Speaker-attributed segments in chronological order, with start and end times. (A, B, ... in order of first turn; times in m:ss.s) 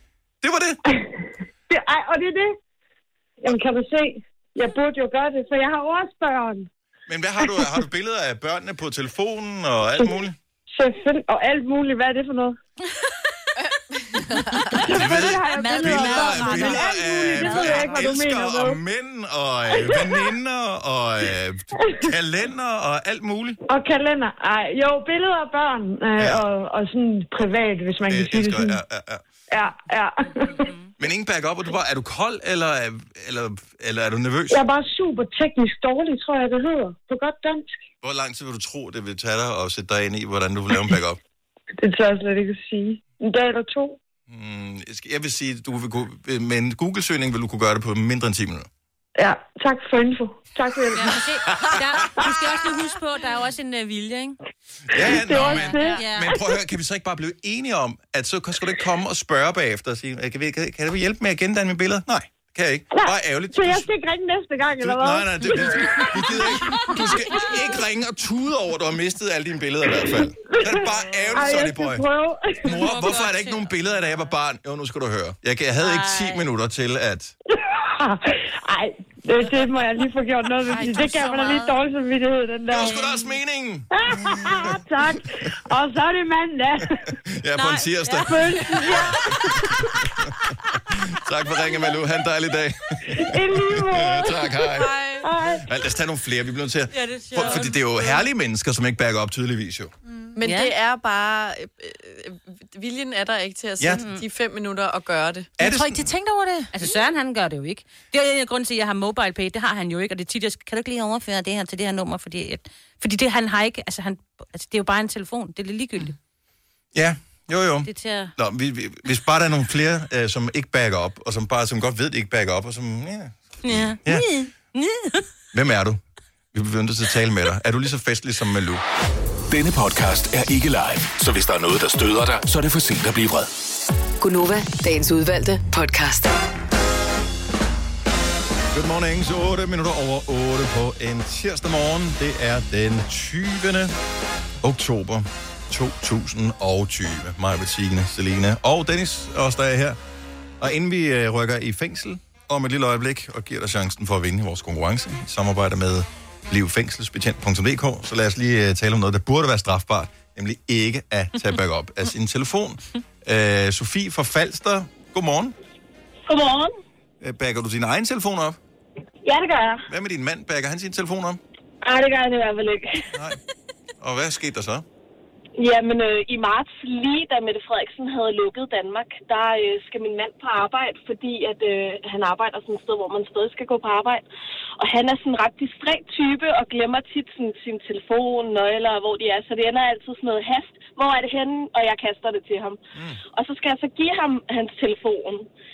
0:00.4-0:00.8 A
0:01.7-0:02.6 B
0:03.4-0:06.7 B
0:07.1-0:10.4 A
0:10.7-0:12.6 B
0:14.2-0:14.5 C
0:14.9-0:18.8 B
0:14.9-0:23.6 A
0:15.5-0:16.9 D
0:16.1-0:18.1 E
0:19.9-0:20.2 B
0:23.7-0:28.8 B
0:28.1-0:29.2 A
0:29.5-0:30.6 B
0:30.4-0:30.8 E
0:31.0-0:34.6 A
0:34.5-0:37.7 B
0:38.0-0:41.2 A
0:41.8-0:44.0 B
0:44.3-0:48.7 A
0:49.2-0:51.2 B
0:51.0-0:54.4 E
0:54.9-1:03.9 A
0:54.9-0:56.4 B
0:55.5-0:56.0 C
0:56.0-0:56.4 E
1:02.9-1:07.5 B
1:04.8-1:12.0 A
1:09.9-1:12.7 B
1:12.6-1:17.3 A
1:12.8-1:13.6 E
1:12.9-1:13.4 D
1:15.8-1:16.4 E
1:17.5-1:23.0 B
1:20.7-1:21.7 C
1:22.7-1:24.5 A
1:22.8-1:23.4 E
1:23.9-1:27.0 B
1:27.3-1:30.3 A
1:27.5-1:29.3 E
1:28.3-1:29.2 B
1:30.9-1:34.9 A
1:33.1-1:35.6 B
1:34.7-1:35.2 C
1:35.6-1:39.9 A
1:36.9-1:38.2 E
1:40.3-1:40.7 E
1:40.4-1:45.5 C
1:43.8-1:44.0 A
1:43.9-1:44.2 E
1:45.6-1:46.1 A
1:45.6-1:46.8 D
1:46.7-1:56.1 E
1:56.9-2:04.4 A
1:57.8-1:58.3 E
2:03.6-2:05.2 E
2:05.5-2:06.0 A
2:06.5-2:08.8 A
2:09.5-2:13.5 F
2:14.2-2:16.4 G
2:18.7-2:23.9 A
2:24.6-2:30.0 A
2:30.6-2:45.5 A
2:46.3-2:46.8 H
2:47.2-2:48.6 A
2:49.2-2:49.9 H
2:49.9-2:51.4 A
2:51.8-2:53.1 H
2:54.0-2:54.8 A
2:55.6-3:04.2 H
3:04.8-3:12.8 H
3:12.9-3:13.2 A
3:13.3-3:15.5 H